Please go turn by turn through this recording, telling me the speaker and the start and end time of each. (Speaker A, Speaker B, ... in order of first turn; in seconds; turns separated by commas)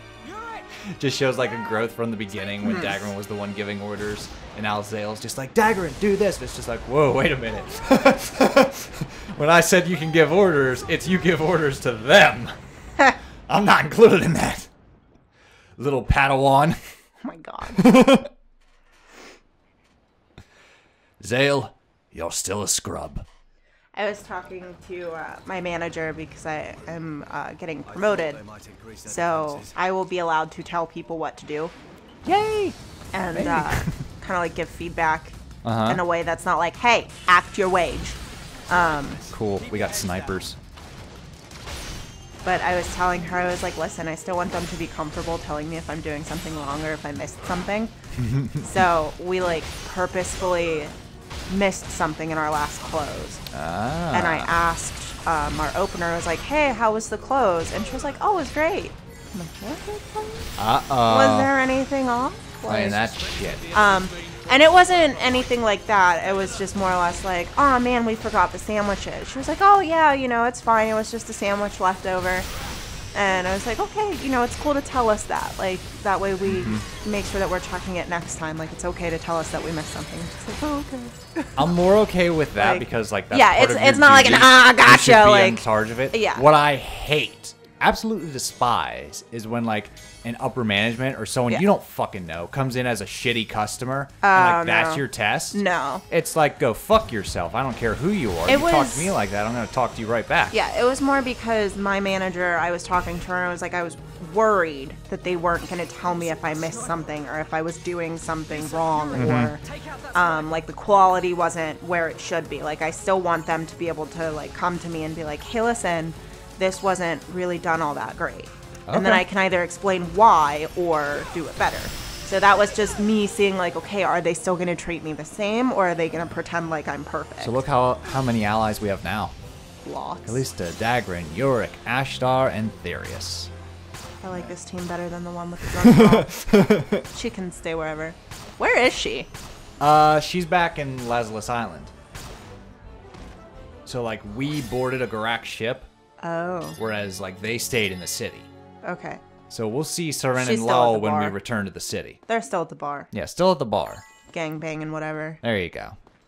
Speaker A: 0.2-0.7, Speaker B: 0.7-12.6, Speaker C: 2.6-3.0, Speaker B: 13.5-14.7, Speaker B: 15.8-16.9, Speaker C: 17.2-17.9, Speaker B: 17.7-18.3, Speaker B: 21.2-23.2, Speaker C: 23.9-28.4, Speaker A: 27.8-29.8, Speaker C: 29.1-31.7, Speaker B: 32.2-32.8, Speaker C: 33.1-38.2, Speaker B: 33.3-34.0, Speaker B: 35.6-36.0, Speaker C: 38.7-39.2, Speaker A: 38.7-40.5, Speaker B: 39.3-40.6, Speaker C: 42.4-47.9, Speaker B: 48.1-48.7, Speaker C: 48.6-50.9, Speaker C: 51.5-53.4, Speaker B: 53.5-54.5, Speaker C: 54.1-60.5, Speaker B: 60.6-61.5, Speaker C: 61.0-63.0, Speaker B: 62.6-63.7, Speaker A: 62.8-67.0, Speaker C: 63.7-72.5, Speaker C: 73.1-81.7, Speaker B: 76.4-76.8, Speaker B: 81.5-100.5, Speaker C: 82.6-86.5, Speaker C: 94.2-96.0, Speaker C: 98.5-99.1, Speaker C: 100.5-127.5, Speaker A: 106.0-107.2, Speaker A: 108.5-110.7, Speaker B: 109.1-109.5, Speaker B: 118.8-119.2, Speaker B: 127.4-129.3, Speaker C: 129.8-130.4, Speaker B: 130.2-133.5, Speaker C: 134.2-136.4, Speaker B: 135.8-137.0, Speaker C: 137.1-139.3, Speaker B: 139.8-141.9, Speaker B: 143.8-145.9, Speaker C: 146.2-146.8, Speaker B: 146.8-148.5, Speaker C: 148.8-149.2, Speaker B: 149.5-152.2, Speaker C: 150.4-151.3, Speaker C: 152.3-153.1, Speaker B: 153.1-154.0, Speaker C: 154.3-155.4, Speaker B: 155.4-156.0